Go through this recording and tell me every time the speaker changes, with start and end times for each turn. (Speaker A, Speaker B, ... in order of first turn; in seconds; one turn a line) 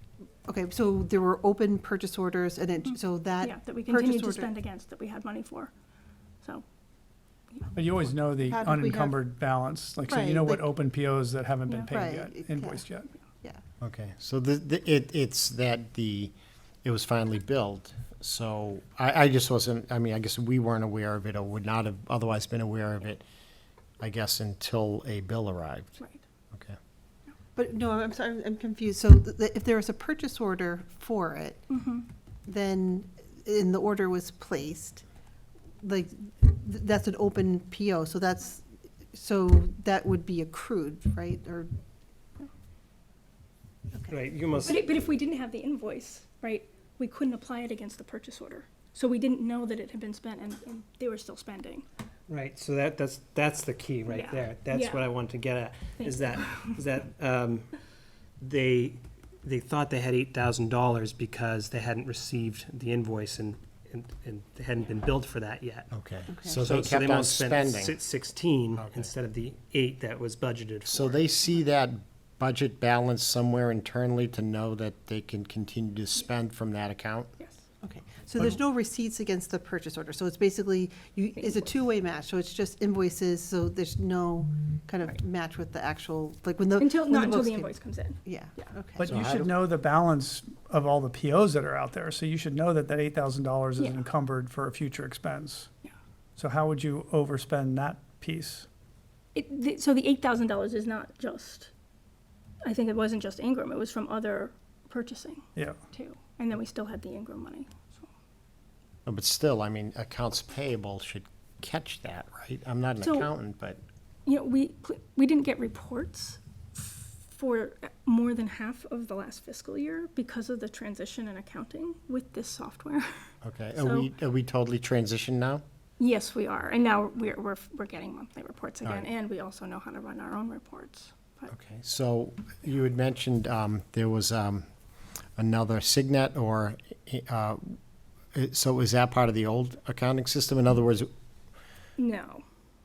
Speaker A: 0.5-4.5
Speaker B: 2.9-5.7
Speaker C: 7.7-13.1
Speaker A: 8.5-9.2
Speaker A: 10.1-10.7
Speaker A: 11.9-12.8
Speaker D: 13.8-23.2
Speaker D: 24.0-26.0
Speaker A: 27.6-31.7
Speaker B: 31.7-32.0
Speaker A: 32.5-35.0
Speaker A: 35.8-41.7
Speaker E: 44.1-44.9
Speaker B: 44.6-51.8
Speaker E: 52.3-57.8
Speaker B: 54.1-55.1
Speaker B: 56.0-56.7
Speaker E: 58.4-65.9
Speaker D: 65.9-67.9
Speaker A: 66.3-66.6
Speaker E: 66.6-71.2
Speaker D: 68.8-69.1
Speaker D: 70.9-77.3
Speaker A: 77.8-89.2
Speaker B: 86.8-88.7
Speaker C: 89.0-95.7
Speaker D: 89.0-89.6
Speaker C: 96.4-98.7
Speaker B: 99.3-101.7
Speaker B: 102.6-108.1
Speaker D: 109.1-113.8
Speaker B: 113.0-113.3
Speaker B: 114.2-124.1
Speaker D: 123.4-125.6
Speaker B: 126.0-131.5
Speaker D: 131.5-134.7
Speaker D: 135.4-137.8
Speaker D: 138.3-141.1
Speaker B: 142.0-142.4